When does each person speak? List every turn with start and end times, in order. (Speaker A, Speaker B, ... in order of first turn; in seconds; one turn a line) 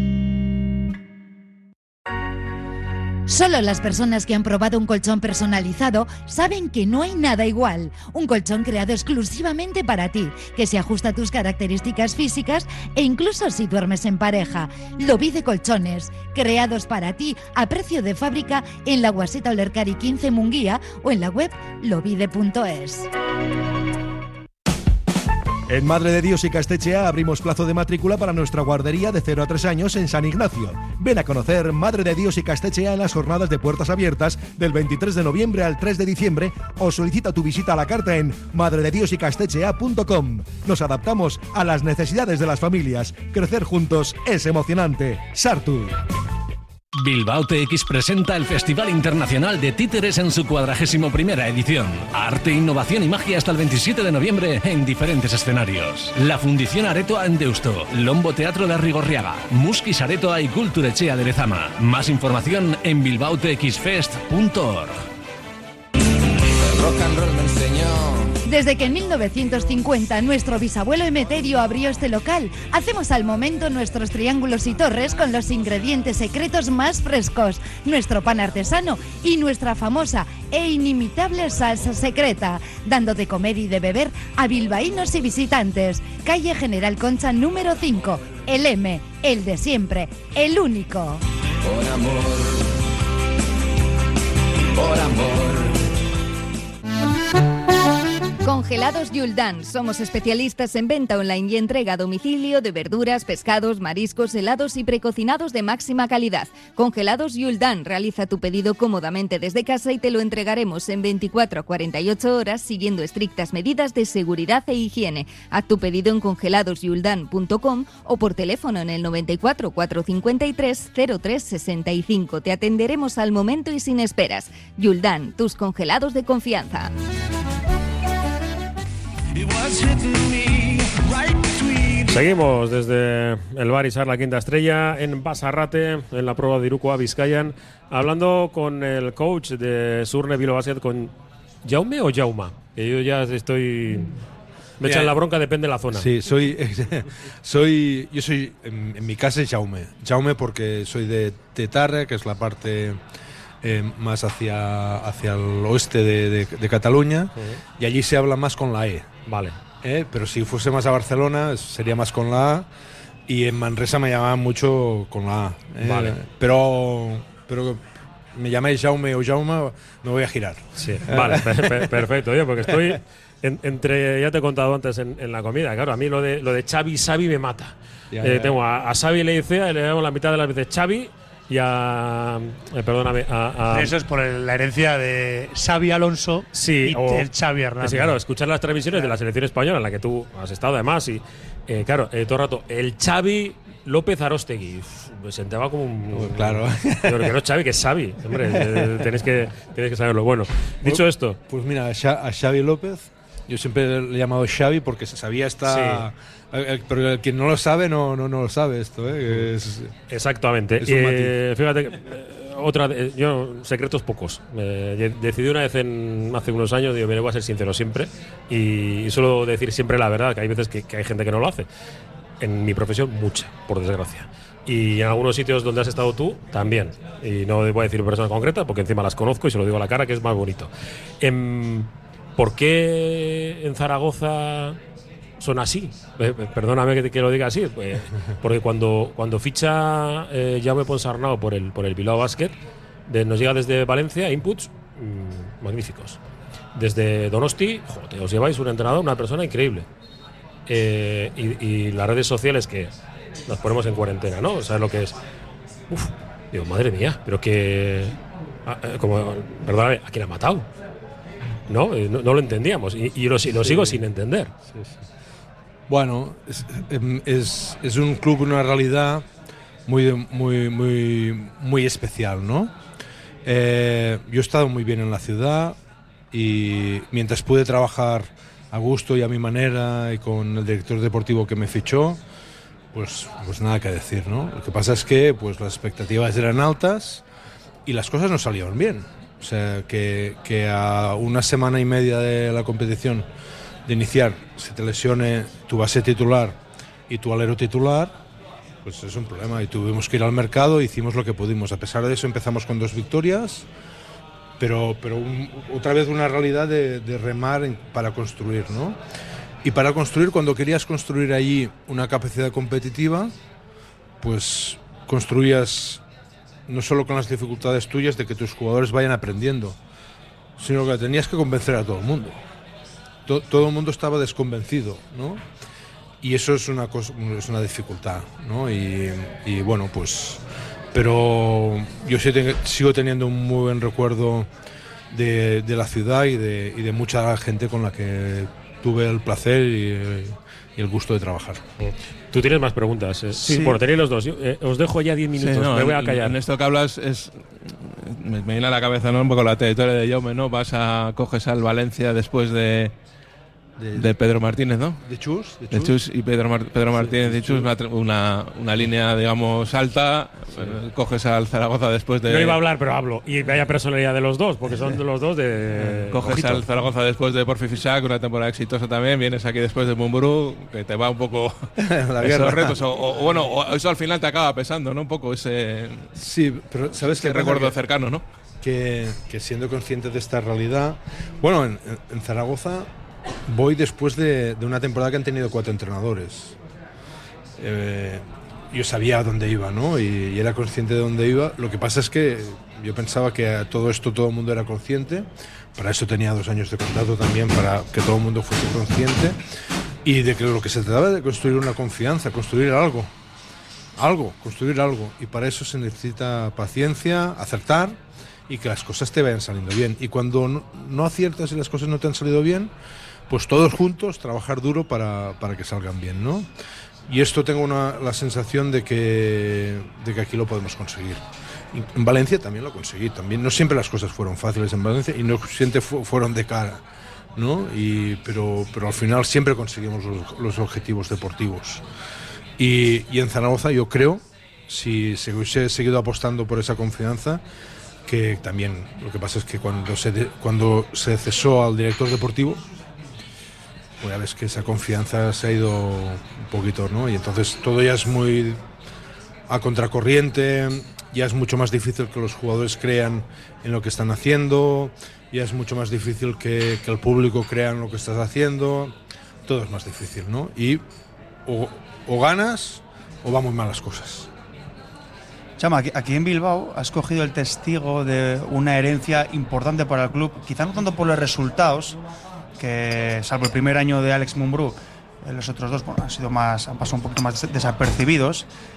Speaker A: 3.3-23.1
Speaker B: 25.7-46.0
Speaker C: 47.0-65.0
Speaker D: 66.6-68.3
Speaker A: 68.5-91.2
Speaker D: 91.6-92.7
Speaker D: 94.8-95.8
Speaker E: 98.4-126.9
Speaker D: 129.4-131.0
Speaker F: 132.1-141.1
Speaker F: 141.6-144.2
Speaker F: 144.8-146.1
Speaker G: 144.8-145.2
Speaker G: 145.9-153.0
Speaker G: 153.6-159.1
Speaker F: 159.3-159.6
Speaker G: 159.8-162.7
Speaker G: 163.3-171.9
Speaker F: 165.8-166.2
Speaker F: 170.8-184.0
Speaker G: 178.1-178.6
Speaker H: 183.7-188.2
Speaker F: 186.5-201.4
Speaker G: 196.1-197.3
Speaker G: 198.5-198.9
Speaker G: 200.8-209.9
Speaker F: 205.7-206.1
Speaker F: 210.1-221.7
Speaker G: 210.8-211.3
Speaker F: 222.4-230.7
Speaker F: 231.2-234.8
Speaker F: 235.4-242.6
Speaker F: 243.1-246.2
Speaker F: 246.8-249.9
Speaker F: 250.7-252.9
Speaker F: 253.5-255.2
Speaker F: 255.9-260.7
Speaker F: 261.7-264.5
Speaker G: 263.6-264.0
Speaker G: 265.9-269.3
Speaker G: 269.9-272.7
Speaker G: 273.4-275.8
Speaker G: 276.3-282.2
Speaker G: 282.9-287.2
Speaker G: 287.9-293.3
Speaker G: 293.9-296.6
Speaker G: 297.1-298.2
Speaker G: 298.8-303.7
Speaker G: 304.6-309.0
Speaker G: 309.6-313.3
Speaker G: 314.2-316.0
Speaker G: 316.7-319.8
Speaker G: 320.6-322.4
Speaker G: 323.3-325.4
Speaker G: 326.2-330.4
Speaker G: 330.9-334.5
Speaker G: 335.1-341.6
Speaker F: 341.8-346.4
Speaker I: 343.4-343.8
Speaker J: 345.4-352.9
Speaker G: 353.8-354.1
Speaker J: 353.9-355.0
Speaker G: 355.0-355.9
Speaker J: 355.7-362.6
Speaker G: 357.0-357.7
Speaker F: 362.3-366.5
Speaker J: 365.9-371.7
Speaker G: 366.3-366.6
Speaker G: 371.8-372.8
Speaker J: 372.2-376.1
Speaker G: 376.2-377.8
Speaker J: 377.0-378.2
Speaker G: 378.6-382.9
Speaker G: 383.5-386.6
Speaker G: 387.6-399.4
Speaker G: 400.0-403.1
Speaker G: 404.0-412.7
Speaker G: 413.3-416.5
Speaker G: 417.1-426.8
Speaker G: 427.4-431.8
Speaker G: 432.6-437.4
Speaker G: 438.1-442.6
Speaker G: 444.0-448.6
Speaker G: 449.5-458.9
Speaker G: 459.5-460.8
Speaker G: 461.5-464.3
Speaker I: 465.6-472.0
Speaker I: 472.6-478.5